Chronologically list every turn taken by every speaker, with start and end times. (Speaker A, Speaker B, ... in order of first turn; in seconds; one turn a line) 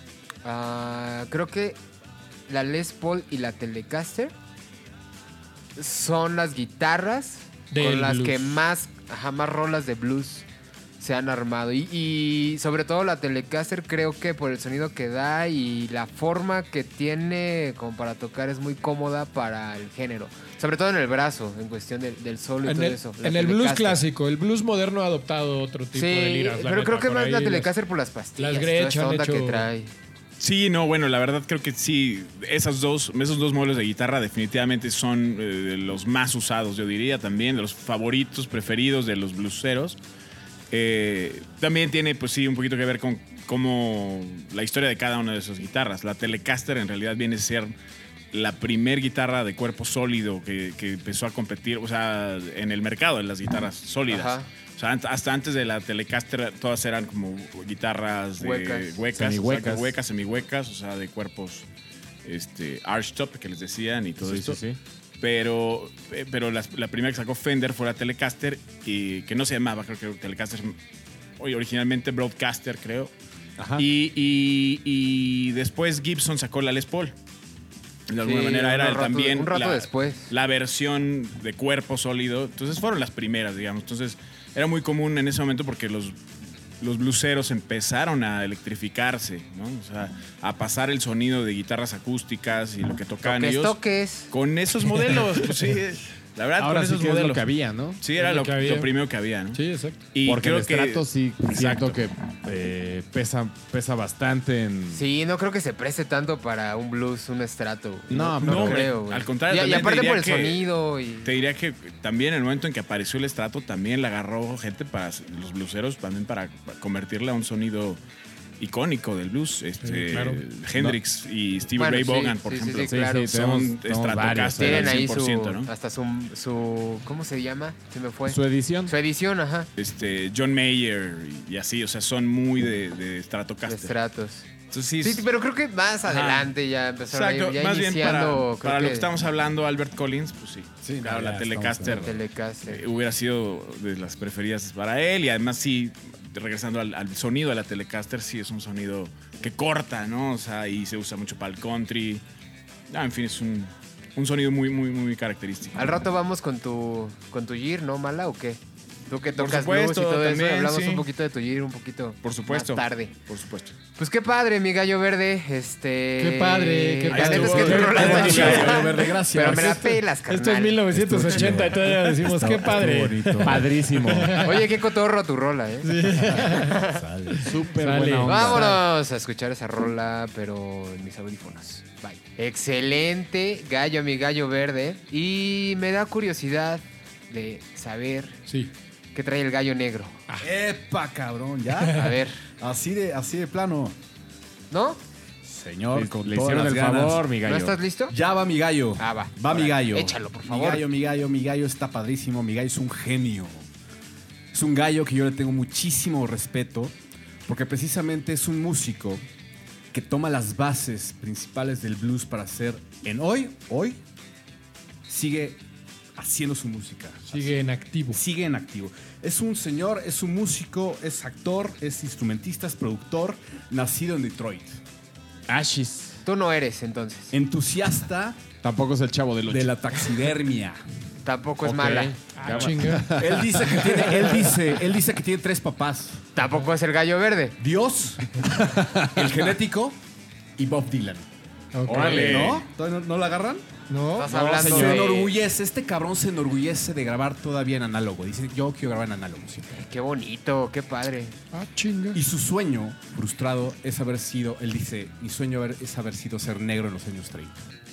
Speaker A: 0.4-1.8
Speaker A: 2.5-4.3
Speaker A: 5.8-10.4
Speaker B: 7.7-8.6
Speaker A: 11.0-24.0
Speaker B: 22.6-27.7
Speaker A: 25.9-29.9
Speaker B: 28.4-29.7
Speaker C: 30.4-40.0
Speaker C: 40.7-47.7
Speaker C: 48.3-61.7
Speaker A: 54.1-54.5
Speaker A: 58.4-59.0
Speaker D: 59.1-60.0
Speaker C: 62.2-64.6
Speaker D: 64.2-64.8
Speaker C: 65.2-70.8
Speaker C: 71.4-73.1
Speaker D: 73.6-73.8
Speaker C: 73.8-77.1
Speaker C: 78.1-86.2
Speaker A: 78.2-80.3
Speaker C: 86.8-93.8
Speaker A: 93.2-94.3
Speaker C: 94.3-97.5
Speaker D: 96.6-98.0
Speaker C: 98.0-99.6
Speaker B: 98.2-98.9
Speaker B: 99.5-100.0
Speaker C: 100.1-102.1
Speaker D: 100.2-105.0
Speaker A: 104.9-111.4
Speaker D: 108.1-108.9
Speaker C: 108.4-110.7
Speaker C: 111.2-118.0
Speaker C: 118.6-125.7
Speaker B: 119.9-120.4
Speaker A: 121.8-123.4
Speaker D: 122.9-125.0
Speaker A: 124.6-129.7
Speaker D: 128.3-128.9
Speaker C: 129.8-133.9
Speaker A: 133.7-134.5
Speaker C: 134.7-135.3
Speaker A: 135.0-139.1
Speaker C: 136.1-136.5
Speaker C: 137.1-142.2
Speaker E: 140.8-142.1
Speaker A: 141.9-142.8
Speaker C: 142.7-152.2
Speaker C: 152.9-156.0
Speaker A: 155.8-163.1
Speaker C: 159.4-161.1
Speaker C: 162.2-163.8
Speaker A: 164.0-170.8
Speaker B: 166.2-168.6
Speaker C: 167.1-169.0
Speaker E: 167.2-170.0
Speaker D: 168.1-168.6
Speaker B: 170.3-174.7
Speaker E: 170.9-173.8
Speaker D: 173.4-174.4
Speaker A: 174.4-177.0
Speaker B: 175.8-176.8
Speaker E: 176.2-177.6
Speaker D: 177.4-178.7
Speaker B: 177.4-178.8
Speaker A: 178.3-188.4
Speaker B: 188.5-188.7
Speaker A: 189.1-190.2
Speaker E: 190.4-192.0
Speaker B: 191.8-192.2
Speaker A: 191.9-192.4
Speaker E: 192.6-194.0
Speaker A: 194.7-195.0
Speaker E: 195.4-197.3
Speaker D: 195.9-197.8
Speaker A: 197.4-198.1
Speaker E: 198.1-203.7
Speaker A: 199.0-200.8
Speaker E: 204.5-206.9
Speaker E: 207.5-209.2
Speaker E: 209.9-214.0
Speaker E: 215.1-215.6
Speaker E: 216.2-217.6
Speaker B: 217.3-218.2
Speaker E: 218.1-224.8
Speaker D: 225.5-226.2
Speaker A: 226.2-227.3
Speaker E: 227.3-228.4
Speaker D: 228.6-230.1
Speaker E: 229.5-230.8
Speaker A: 231.2-232.2
Speaker D: 231.6-234.0
Speaker B: 232.4-233.2
Speaker E: 233.2-236.2
Speaker A: 236.3-237.6
Speaker E: 237.6-240.0
Speaker D: 238.6-239.3
Speaker E: 240.6-241.3
Speaker B: 241.7-242.5
Speaker D: 241.9-242.6
Speaker C: 241.9-242.7
Speaker E: 242.1-243.7
Speaker B: 243.9-244.3
Speaker A: 244.1-245.4
Speaker D: 244.3-245.1
Speaker E: 244.3-249.8
Speaker A: 249.7-251.4
Speaker B: 251.5-252.2
Speaker E: 252.1-257.6